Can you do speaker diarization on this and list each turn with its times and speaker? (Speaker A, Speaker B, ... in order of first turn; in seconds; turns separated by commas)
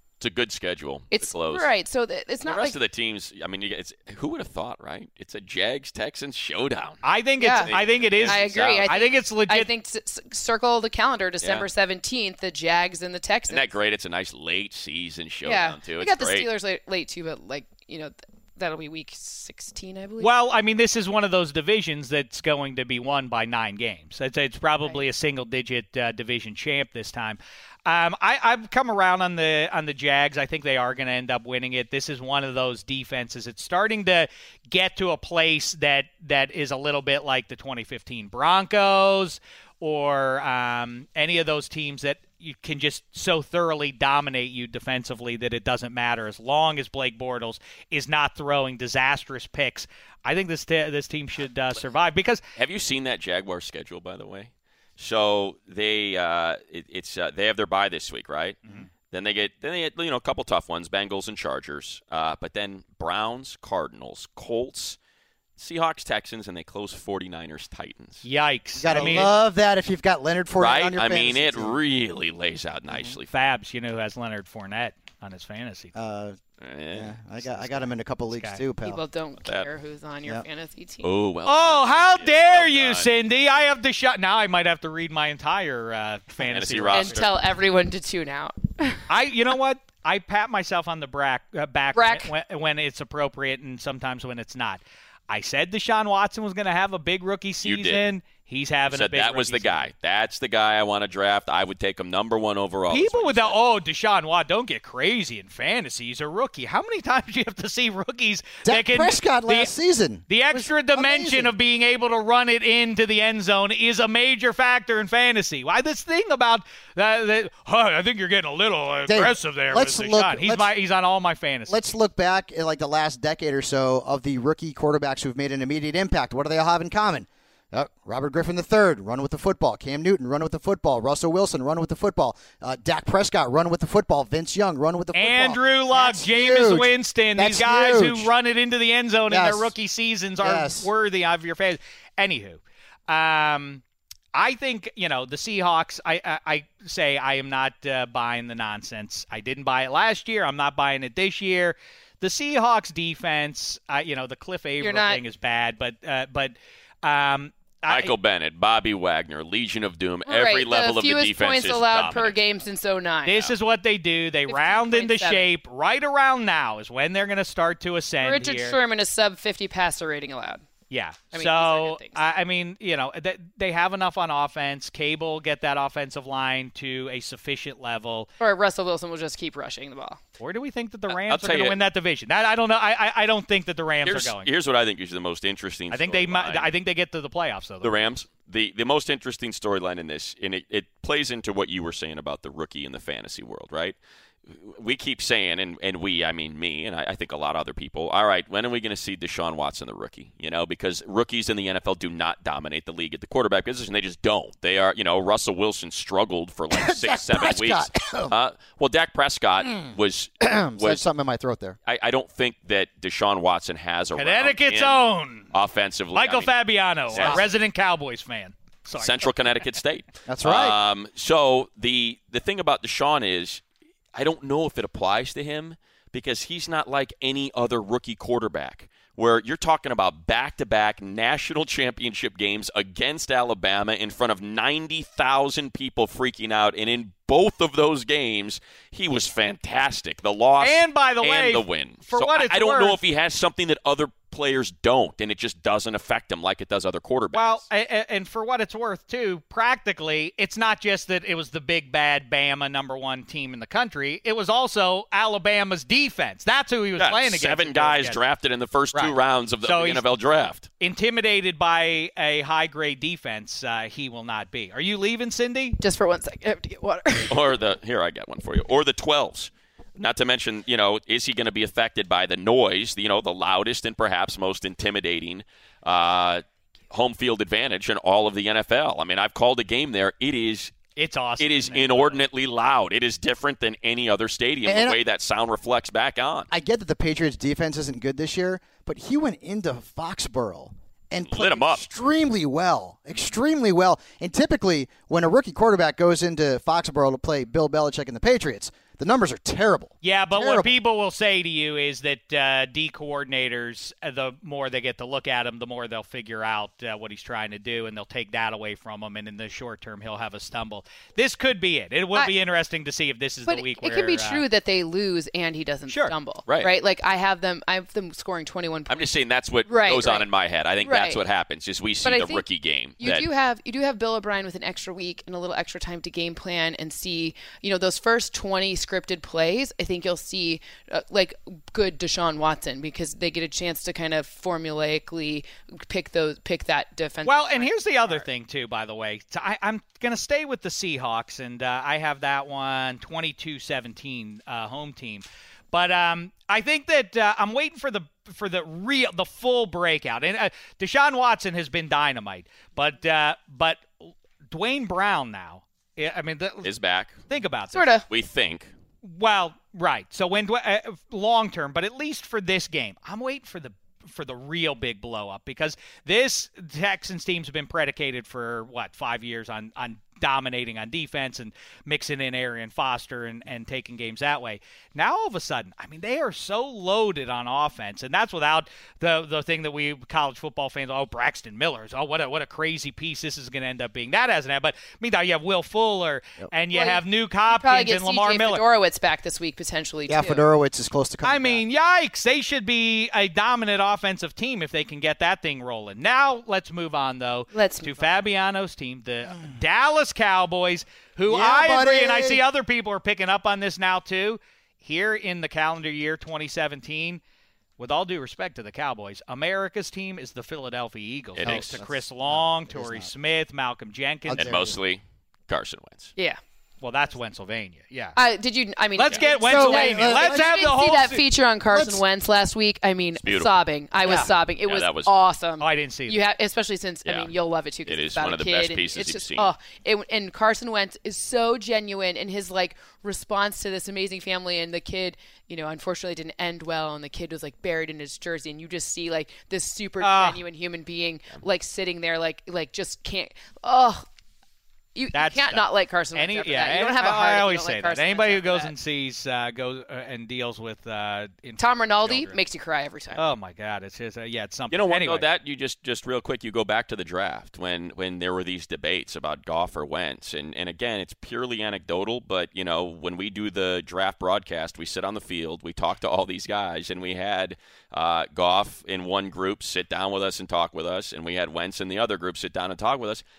Speaker A: 0.2-1.7, Speaker B: 1.1-2.8, Speaker A: 2.4-7.0, Speaker C: 7.0-9.7, Speaker B: 7.4-7.7, Speaker A: 7.5-8.9, Speaker B: 8.3-13.7, Speaker A: 11.4-11.7, Speaker A: 13.5-16.5, Speaker B: 15.4-20.3, Speaker C: 20.2-52.4, Speaker A: 52.6-58.6, Speaker A: 59.1-65.0, Speaker A: 65.6-68.2, Speaker C: 68.2-69.3, Speaker D: 68.8-71.8, Speaker A: 68.9-69.3, Speaker A: 70.5-73.3, Speaker D: 72.9-73.2, Speaker C: 73.3-75.9, Speaker D: 76.0-76.4, Speaker A: 76.6-77.9, Speaker D: 76.9-79.0, Speaker C: 78.3-78.6, Speaker B: 78.8-81.1, Speaker A: 79.4-79.7, Speaker A: 81.0-83.1, Speaker C: 81.5-87.2, Speaker A: 86.4-87.4, Speaker B: 86.9-89.0, Speaker C: 89.1-99.8, Speaker B: 91.9-92.3, Speaker A: 97.6-98.0, Speaker A: 98.9-103.6, Speaker C: 102.9-109.7, Speaker D: 108.7-111.5, Speaker C: 110.3-121.8, Speaker D: 119.1-120.7, Speaker D: 121.7-138.3, Speaker C: 135.1-143.8, Speaker D: 139.3-139.7, Speaker D: 140.4-140.9, Speaker C: 144.3-158.2, Speaker B: 154.8-155.2, Speaker A: 157.9-162.3, Speaker B: 160.3-163.5, Speaker C: 162.0-162.3, Speaker C: 163.2-168.8, Speaker B: 164.5-165.5, Speaker B: 168.2-170.7, Speaker C: 170.9-178.3, Speaker B: 171.3-172.2, Speaker B: 178.4-180.2, Speaker C: 180.4-184.5, Speaker A: 181.1-181.8, Speaker A: 184.0-186.7, Speaker C: 185.9-188.0, Speaker A: 187.8-194.0, Speaker A: 194.5-211.1, Speaker D: 206.7-208.3, Speaker D: 209.7-211.8, Speaker A: 211.8-216.6, Speaker C: 214.2-215.5, Speaker C: 216.1-219.2, Speaker A: 217.1-217.5, Speaker A: 219.0-223.6, Speaker D: 220.3-220.8, Speaker A: 224.1-247.6, Speaker C: 240.6-243.0, Speaker C: 247.3-258.2, Speaker A: 257.0-260.7, Speaker C: 258.9-260.0, Speaker C: 260.8-265.8, Speaker B: 265.8-267.5, Speaker A: 267.3-280.8, Speaker C: 281.0-282.2, Speaker A: 281.4-286.5, Speaker D: 284.7-285.0, Speaker D: 286.5-300.7, Speaker A: 291.3-291.9, Speaker C: 300.0-314.4, Speaker B: 313.5-319.1, Speaker C: 315.9-316.1, Speaker A: 316.5-316.7, Speaker A: 318.9-323.3, Speaker B: 319.7-320.3, Speaker B: 320.8-321.2, Speaker B: 322.0-322.4, Speaker B: 323.0-338.2, Speaker C: 337.2-356.7, Speaker A: 356.6-357.2, Speaker C: 357.3-357.9, Speaker B: 357.7-358.1, Speaker A: 358.1-358.7, Speaker C: 359.0-388.6, Speaker B: 386.7-390.4, Speaker D: 390.1-391.6, Speaker C: 391.2-407.2, Speaker B: 397.5-398.1, Speaker D: 401.3-402.4, Speaker C: 407.8-414.6, Speaker A: 411.4-411.8, Speaker D: 411.4-413.1, Speaker D: 414.3-414.8, Speaker A: 414.3-416.1, Speaker C: 416.8-418.2, Speaker B: 418.2-444.1, Speaker C: 418.9-421.2, Speaker D: 419.4-420.6, Speaker D: 421.7-422.0, Speaker A: 423.2-425.1, Speaker C: 425.6-426.2, Speaker A: 427.1-427.3, Speaker A: 427.9-429.5, Speaker C: 440.0-440.4, Speaker B: 444.9-448.7, Speaker C: 445.1-452.4, Speaker B: 451.6-453.2, Speaker C: 453.1-455.3, Speaker A: 454.7-473.2